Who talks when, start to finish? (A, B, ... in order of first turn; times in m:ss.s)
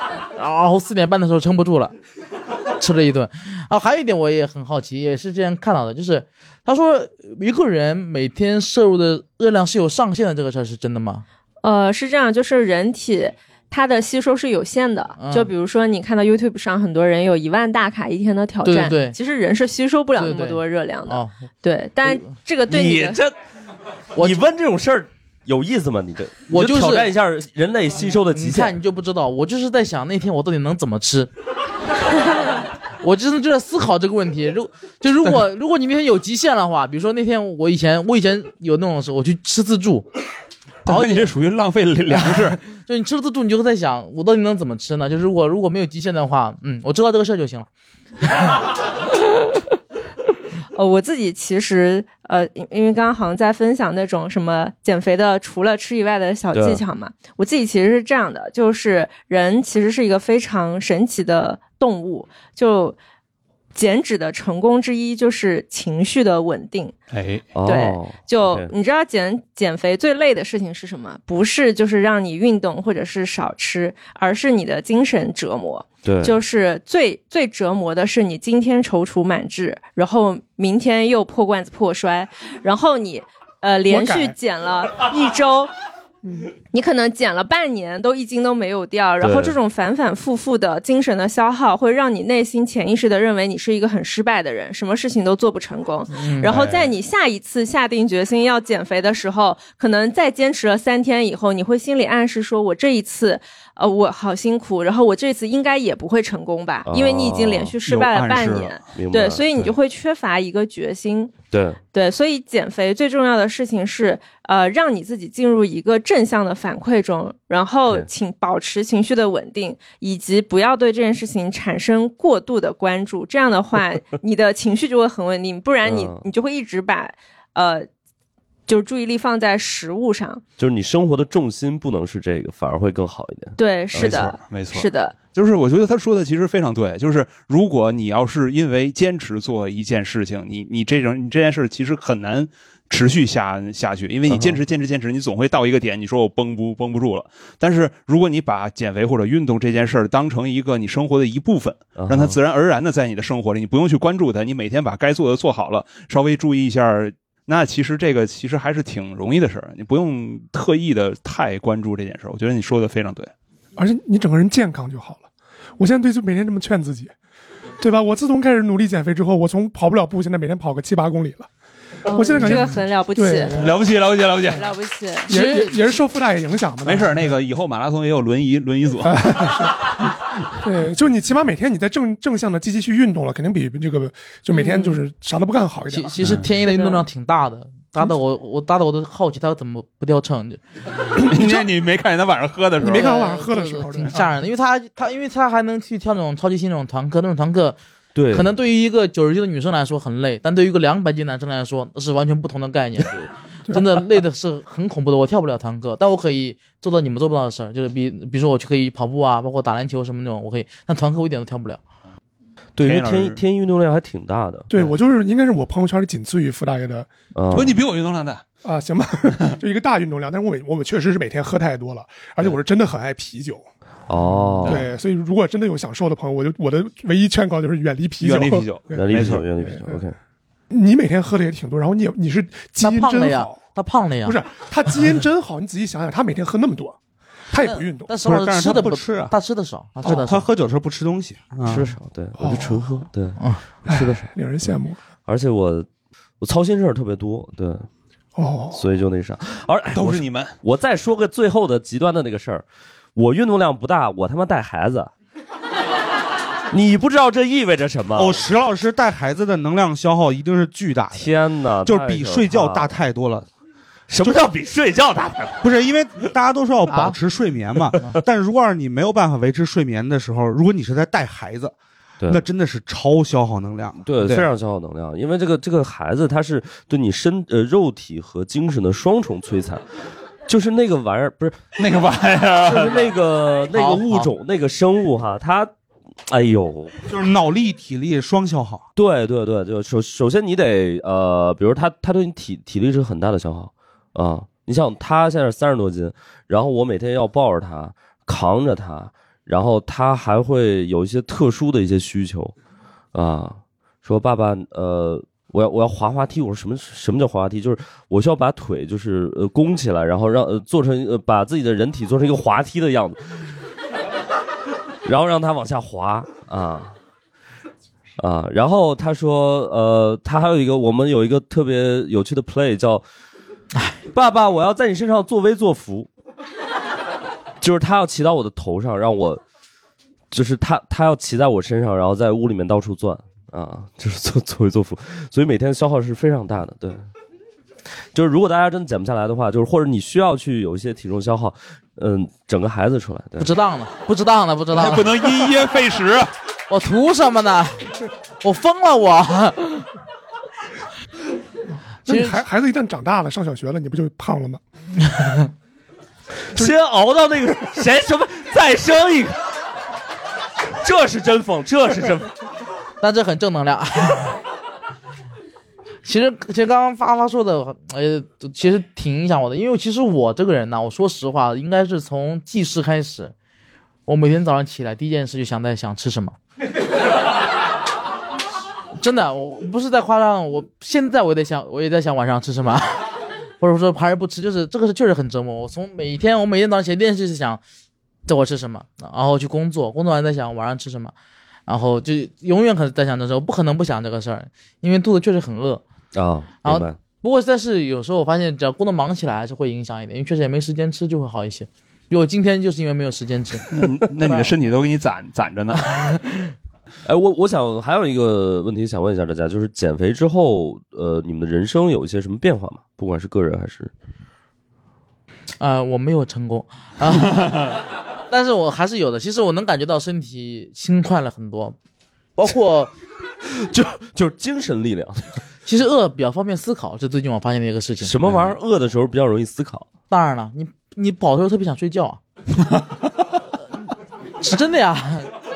0:00.4-0:01.9 A
0:02.8-0:11.2 A
0:11.6-0:23.2 B
0:15.2-0:15.5 A
0:18.6-0:19.2 A
0:20.2-0:21.4 A
0:22.7-0:23.4 C
0:24.2-0:24.4 A
0:24.2-0:28.8 C
0:26.5-0:27.1 A
0:28.3-0:31.3 A
0:33.0-0:40.1 A
0:40.8-0:42.6 D
0:40.9-0:41.3 A
0:42.1-0:47.7 A
0:50.7-1:03.0 B
0:56.5-0:56.8 C
1:03.8-1:07.0 B
1:07.1-1:07.5 D
1:07.6-1:08.7 C
1:07.6-1:25.7 B
1:16.0-1:16.4 C
1:23.9-1:24.4 E
1:26.7-1:51.3 B
1:29.2-1:29.6 C
1:36.1-1:36.5 A
1:36.5-1:36.9 D
1:46.9-1:47.7 C
1:47.8-1:48.8 D
1:48.9-1:49.7 C
1:51.5-1:51.8 C
1:51.9-2:07.9 B
2:05.8-2:06.3 C
2:08.7-2:10.4 B
2:10.6-2:14.3 C
2:13.6-2:15.2 B
2:13.9-2:43.3 D
2:24.3-2:24.6 C
2:32.0-2:32.4 C
2:43.8-2:45.3 E
2:45.8-2:47.1 E
2:47.8-2:51.5 E
2:52.1-2:53.6 B
2:52.1-2:53.7 E
2:53.5-2:54.7 D
2:54.5-2:55.3 B
2:55.3-2:55.8 A
2:55.3-2:57.2 E
2:56.8-2:59.7 D
2:59.0-2:59.9 E
3:00.6-3:06.2 E
3:05.9-3:10.6 A
3:06.2-3:06.5 D
3:06.7-3:07.0 B
3:11.1-3:13.1 D
3:12.8-3:14.3 E
3:12.8-3:17.8 A
3:18.2-3:18.5 C
3:18.3-3:31.8 A
3:32.8-3:34.9 C
3:32.8-3:33.4 D
3:34.7-3:37.1 E
3:37.4-3:37.8 C
3:37.5-3:38.4 D
3:38.6-3:43.7 E
3:44.1-3:44.9 C
3:44.6-3:44.9 D
3:44.6-3:50.0 E
3:48.2-3:49.5 D
3:48.9-3:50.2 C
3:50.7-3:53.6 E
3:52.8-3:54.4 A
3:54.2-3:57.0 E
3:57.5-3:58.1 E
3:57.6-4:00.5 A
3:58.2-3:59.3 F
4:00.0-4:01.9 F
4:01.7-4:04.3 C
4:02.4-4:03.1 E
4:03.9-4:05.0 E
4:05.3-4:05.9 C
4:06.4-4:07.9 C
4:08.4-4:08.8 E
4:08.7-4:12.6 C
4:09.9-4:10.6 D
4:13.2-4:15.1 C
4:16.7-4:18.4 C
4:18.2-4:23.5 F
4:21.1-4:23.0 C
4:24.1-4:25.7 C
4:25.6-4:31.8 F
4:26.9-4:27.2 A
4:32.3-4:34.5 F
4:34.0-4:39.9 C
4:40.5-4:41.6 C
4:41.8-4:43.1 D
4:42.6-4:45.7 C
4:43.7-4:44.3 A
4:46.3-4:47.1 C
4:47.1-4:48.9 F
4:49.0-5:02.5 C
5:03.1-5:13.6 C
5:15.0-5:17.0 C
5:18.2-5:23.0 C
5:24.1-5:26.1 C
5:27.6-5:29.4 C
5:30.3-5:37.0 C
5:38.1-5:43.5 C
5:43.4-5:45.1 A
5:44.7-5:46.3 D
5:46.7-5:49.9 A
5:52.0-5:54.6 E
5:52.1-5:52.4 A
5:55.1-5:55.4 A
5:56.5-5:59.4 C
6:00.8-6:02.3 C
6:03.0-6:04.4 A
6:06.0-6:13.3 A
6:14.1-6:16.4 A
6:19.0-6:23.1 A
6:23.6-6:27.6 A
6:28.3-6:31.1 A
6:31.7-6:35.8 A
6:36.1-6:37.0 C
6:36.6-6:43.7 A
6:43.7-6:45.9 D
6:47.0-6:53.9 C
6:55.6-6:57.7 A
6:58.3-7:01.8 A
7:02.4-7:02.9 A
7:03.5-7:05.3 C
7:05.7-7:08.2 A
7:08.0-7:09.9 C
7:10.1-7:12.2 A
7:14.4-7:15.3 A